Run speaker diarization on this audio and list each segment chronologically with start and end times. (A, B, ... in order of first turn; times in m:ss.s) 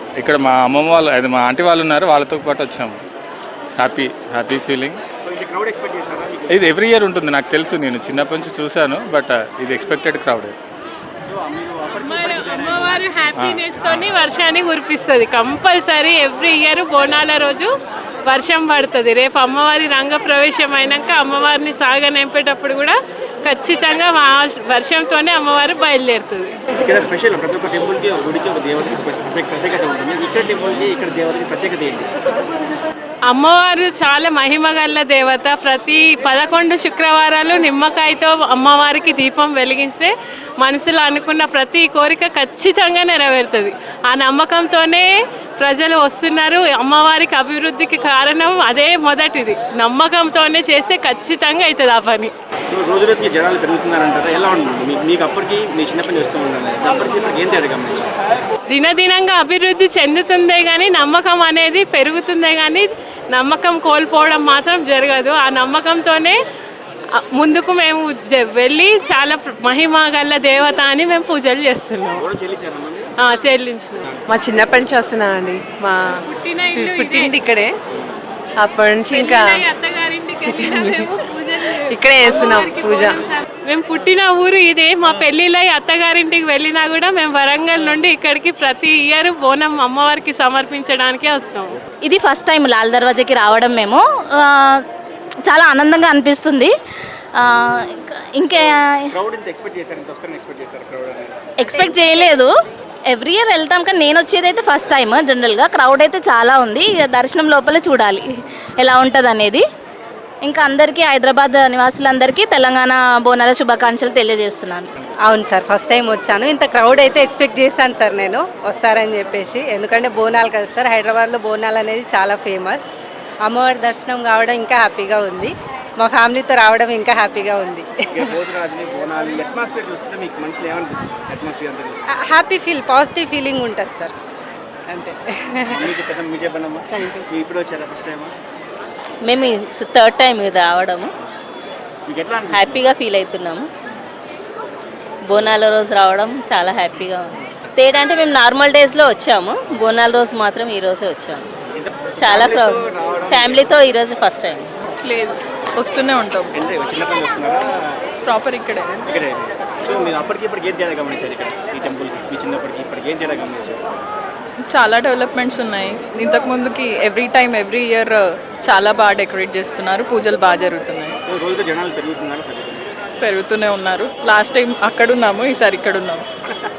0:00.2-0:03.0 A
0:03.7-0:05.0 A
0:05.2-0:06.7 B
0:06.5-0:10.5 A
0:11.2-0:13.3 B
0:12.0-0:17.7 C
0:13.4-0:14.1 A
0:18.2-0:26.5 C
0:26.8-0:32.1 B
0:33.3-0:52.3 C
0:52.7-0:58.1 B
0:58.7-1:06.4 C
1:07.3-1:12.2 C
1:12.1-1:13.2 B
1:13.2-1:14.1 C
1:14.3-1:16.2 D
1:16.2-1:17.4 C
1:16.8-1:17.7 D
1:18.6-1:19.6 D
1:19.1-1:31.8 C
1:20.4-1:21.0 D
1:21.9-1:23.2 D
1:32.0-1:34.8 E
1:35.5-1:36.7 E
1:37.4-1:38.7 E
1:38.5-1:41.4 B
1:41.6-1:42.4 F
1:41.6-1:42.5 E
1:43.1-1:48.2 E
1:48.8-1:49.6 E
1:50.4-1:54.9 E
1:55.2-2:02.9 F
2:03.4-2:08.3 F
2:08.1-2:12.0 B
2:12.2-2:14.1 F
2:14.9-2:15.9 F
2:15.7-2:18.3 B
2:16.9-2:17.3 D
2:19.2-2:21.1 G
2:22.0-2:22.9 B
2:22.5-2:23.7 G
2:25.3-2:31.5 G
2:31.7-2:33.8 B
2:32.2-2:34.7 G
2:35.0-2:36.5 H
2:36.5-2:37.9 B
2:38.2-2:38.9 H
2:39.0-2:43.8 B
2:44.7-2:51.2 H
2:51.3-2:52.8 B
2:53.2-2:56.2 H